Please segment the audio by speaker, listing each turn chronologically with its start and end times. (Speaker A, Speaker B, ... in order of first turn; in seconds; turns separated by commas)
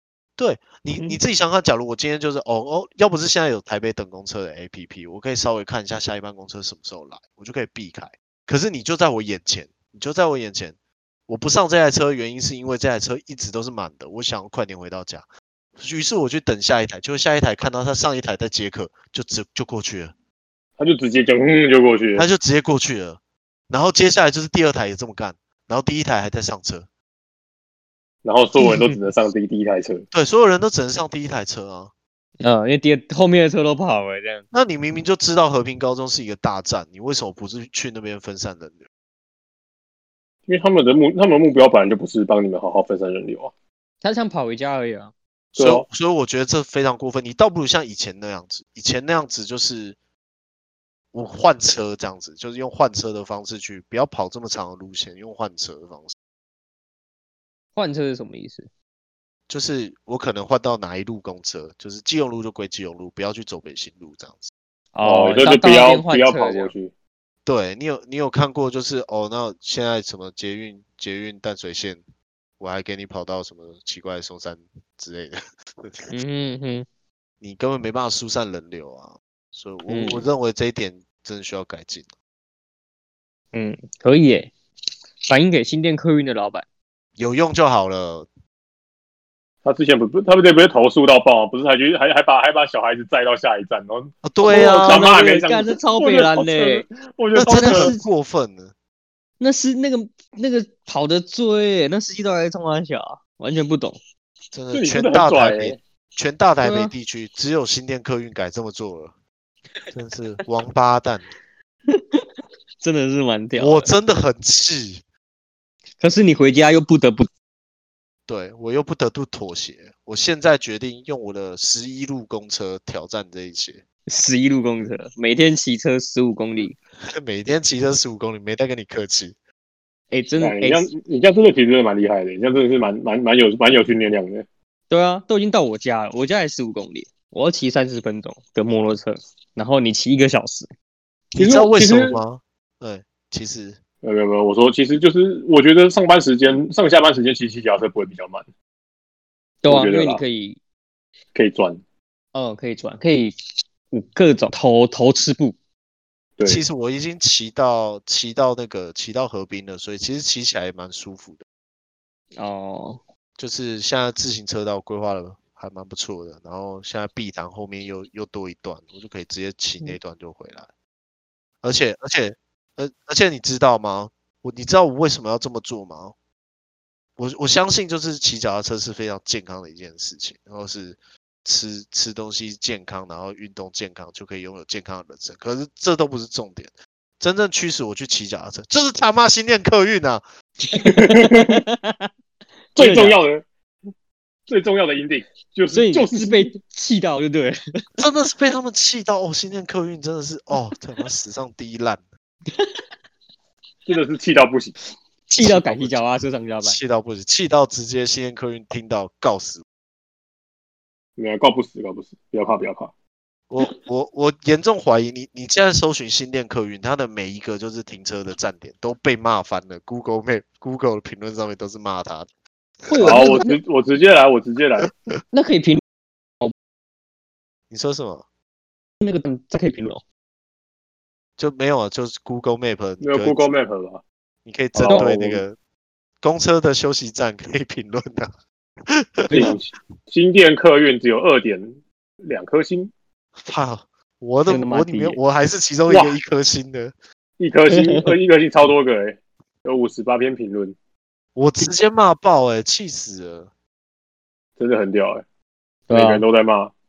Speaker A: 0.4-10.8, Speaker A: 11.3-15.3, Speaker A: 15.8-20.1, Speaker B: 20.8-22.3, Speaker A: 22.2-26.9, Speaker B: 28.2-30.1, Speaker A: 30.1-31.9, Speaker C: 32.4-34.5, Speaker A: 34.5-38.9, Speaker B: 40.5-43.5, Speaker C: 44.0-45.1, Speaker A: 45.5-50.0, Speaker B: 45.6-45.9, Speaker A: 51.1-56.1, Speaker C: 57.8-58.7, Speaker A: 59.5-64.5, Speaker C: 64.9-66.7, Speaker B: 65.0-66.9, Speaker A: 67.5-72.0, Speaker A: 72.6-76.1, Speaker C: 76.1-76.9, Speaker A: 77.4-82.1, Speaker C: 79.9-80.3, Speaker C: 83.5-84.5, Speaker C: 85.3-86.7, Speaker A: 87.2-88.3, Speaker B: 89.7-98.0, Speaker A: 94.2-95.1, Speaker C: 94.4-96.8, Speaker A: 97.3-98.7, Speaker C: 97.4-98.0, Speaker C: 99.4-104.0, Speaker A: 104.5-109.1, Speaker B: 104.7-105.8, Speaker C: 106.6-106.9, Speaker A: 109.9-111.3, Speaker C: 111.9-112.2, Speaker C: 112.8-113.9, Speaker A: 113.5-115.0, Speaker C: 116.0-117.3, Speaker A: 118.3-123.8, Speaker C: 124.1-126.8, Speaker A: 127.1-129.3, Speaker C: 130.1-130.9, Speaker B: 130.4-134.5, Speaker C: 134.9-140.7, Speaker A: 141.3-143.8, Speaker B: 141.4-142.2, Speaker B: 144.0-148.5, Speaker C: 149.6-150.6, Speaker B: 149.7-150.2, Speaker B: 151.3-151.8, Speaker C: 152.3-153.3, Speaker C: 153.9-155.6, Speaker B: 156.4-156.7, Speaker A: 156.5-161.4, Speaker C: 162.4-163.0, Speaker A: 163.4-170.7, Speaker A: 171.6-176.2, Speaker A: 177.2-190.2, Speaker C: 190.7-192.1, Speaker B: 190.8-191.6, Speaker C: 192.8-193.2, Speaker B: 192.8-193.4, Speaker B: 194.5-196.5, Speaker C: 195.7-197.6, Speaker A: 198.0-202.0, Speaker B: 203.9-204.8, Speaker C: 205.3-206.8, Speaker A: 205.4-206.1, Speaker A: 206.6-209.6, Speaker B: 211.2-212.9, Speaker A: 213.5-222.3, Speaker C: 222.9-223.6, Speaker A: 223.0-223.4, Speaker B: 223.0-224.9, Speaker C: 225.3-225.8, Speaker A: 227.7-228.2, Speaker C: 229.0-230.0, Speaker A: 231.4-233.4, Speaker B: 233.0-234.0, Speaker A: 234.4-235.6, Speaker B: 234.7-235.4, Speaker A: 236.2-238.3, Speaker A: 238.9-239.5, Speaker C: 239.3-239.6, Speaker B: 239.3-242.9, Speaker A: 243.4-246.9, Speaker C: 244.5-245.2, Speaker B: 245.9-246.2, Speaker B: 247.4-250.8, Speaker C: 247.8-248.1, Speaker A: 251.4-253.5, Speaker B: 254.6-255.2, Speaker C: 255.9-256.3, Speaker B: 255.9-256.7